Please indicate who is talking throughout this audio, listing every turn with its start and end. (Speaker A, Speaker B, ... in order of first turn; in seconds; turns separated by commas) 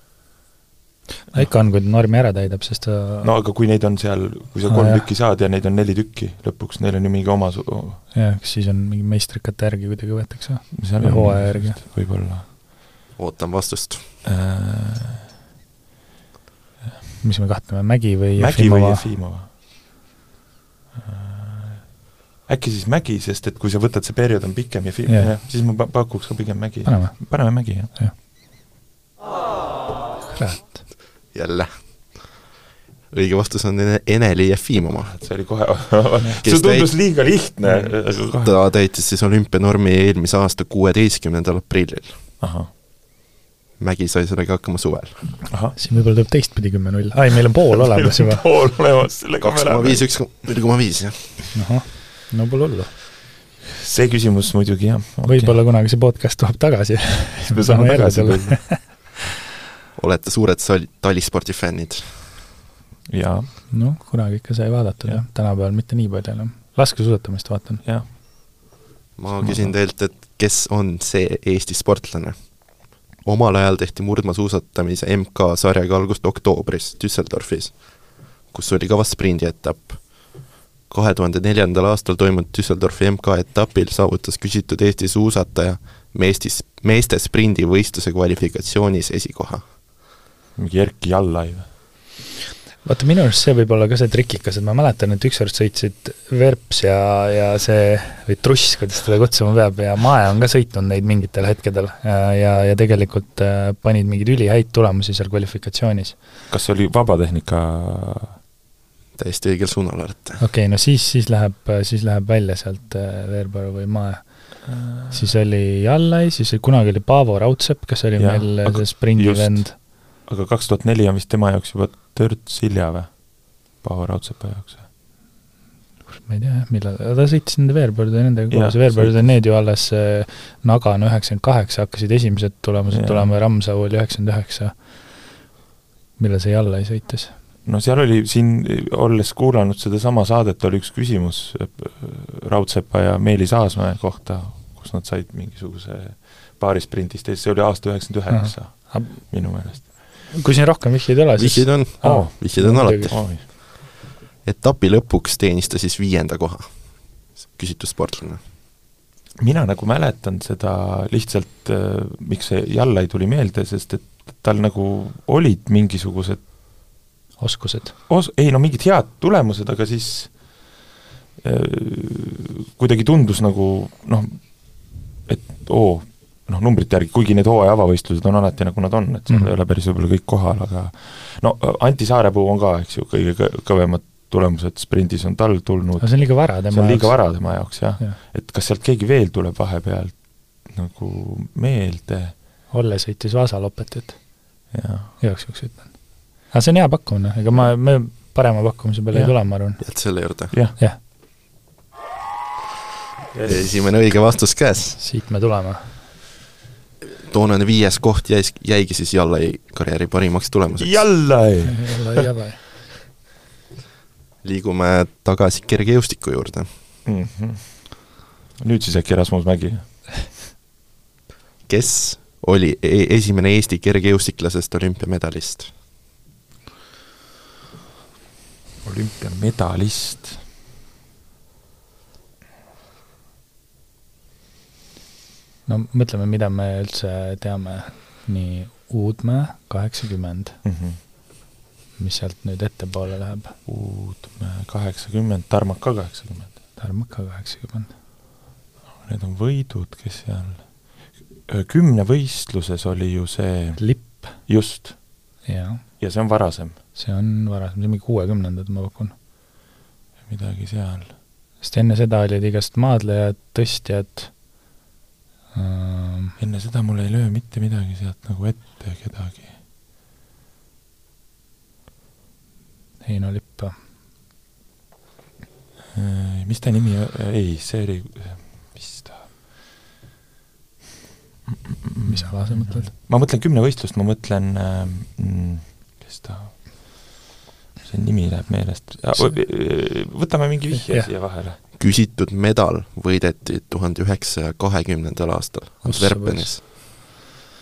Speaker A: 1.3-3.3, Speaker B: 3.2-8.0, Speaker A: 4.7-5.0, Speaker A: 8.1-11.8, Speaker B: 10.7-12.5, Speaker C: 13.2-14.0, Speaker B: 14.2-15.3, Speaker A: 17.2-19.1, Speaker B: 18.4-19.5, Speaker B: 20.9-21.9, Speaker B: 22.5-27.9, Speaker A: 25.1-25.3, Speaker A: 26.9-28.1, Speaker A: 30.3-30.8, Speaker C: 31.3-32.2, Speaker C: 33.1-35.1, Speaker B: 35.0-38.5, Speaker C: 36.4-37.0, Speaker C: 37.8-42.2, Speaker B: 42.4-42.7, Speaker C: 43.8-45.3, Speaker B: 45.5-45.8, Speaker A: 45.8-48.4, Speaker B: 47.8-50.0, Speaker C: 49.4-51.4, Speaker A: 51.5-52.9, Speaker B: 53.7-55.6, Speaker A: 55.2-58.8, Speaker B: 57.4-58.9, Speaker C: 60.0-62.1, Speaker B: 63.1-63.5, Speaker A: 63.7-67.8, Speaker C: 69.2-72.4, Speaker B: 69.4-69.7, Speaker C: 73.2-77.8, Speaker C: 78.5-80.0, Speaker C: 80.9-89.6, Speaker B: 90.6-91.7, Speaker A: 92.8-106.2, Speaker B: 106.5-108.4, Speaker C: 109.2-110.4, Speaker A: 110.4-119.8, Speaker B: 114.7-115.3, Speaker B: 118.2-124.9, Speaker A: 126.2-134.9, Speaker B: 128.5-129.3, Speaker B: 132.9-133.3, Speaker A: 136.2-137.3, Speaker B: 137.7-150.1, Speaker A: 148.3-153.2, Speaker C: 151.4-153.2, Speaker B: 152.0-153.4, Speaker C: 154.4-156.7, Speaker C: 157.4-158.4, Speaker B: 159.4-166.4, Speaker A: 167.4-167.9, Speaker B: 168.1-170.3, Speaker B: 171.4-174.4, Speaker B: 175.3-192.3, Speaker A: 186.0-188.2, Speaker A: 192.7-194.2, Speaker B: 194.7-195.2, Speaker A: 195.2-199.8, Speaker C: 199.8-200.5, Speaker B: 200.5-200.8, Speaker B: 203.3-203.7, Speaker C: 203.4-205.0, Speaker A: 205.0-205.8, Speaker C: 207.0-211.1, Speaker B: 210.8-212.2, Speaker A: 211.7-212.6, Speaker C: 214.4-216.7, Speaker B: 217.1-218.1, Speaker B: 218.6-219.9, Speaker C: 221.7-225.7, Speaker B: 228.8-230.4, Speaker A: 235.7-240.6, Speaker B: 240.6-241.0, Speaker A: 242.0-243.6, Speaker B: 243.7-246.5, Speaker A: 246.8-247.9, Speaker B: 249.0-255.0, Speaker A: 253.8-254.3, Speaker A: 255.4-255.8, Speaker B: 256.0-256.8, Speaker A: 256.9-259.1, Speaker B: 260.3-261.1, Speaker A: 261.6-264.3, Speaker A: 265.5-266.4, Speaker B: 266.4-269.6, Speaker A: 273.0-273.8, Speaker B: 275.9-279.3, Speaker B: 281.8-286.6, Speaker A: 282.1-282.9, Speaker B: 287.8-291.6, Speaker A: 290.8-291.1, Speaker C: 291.8-296.6, Speaker A: 295.9-296.5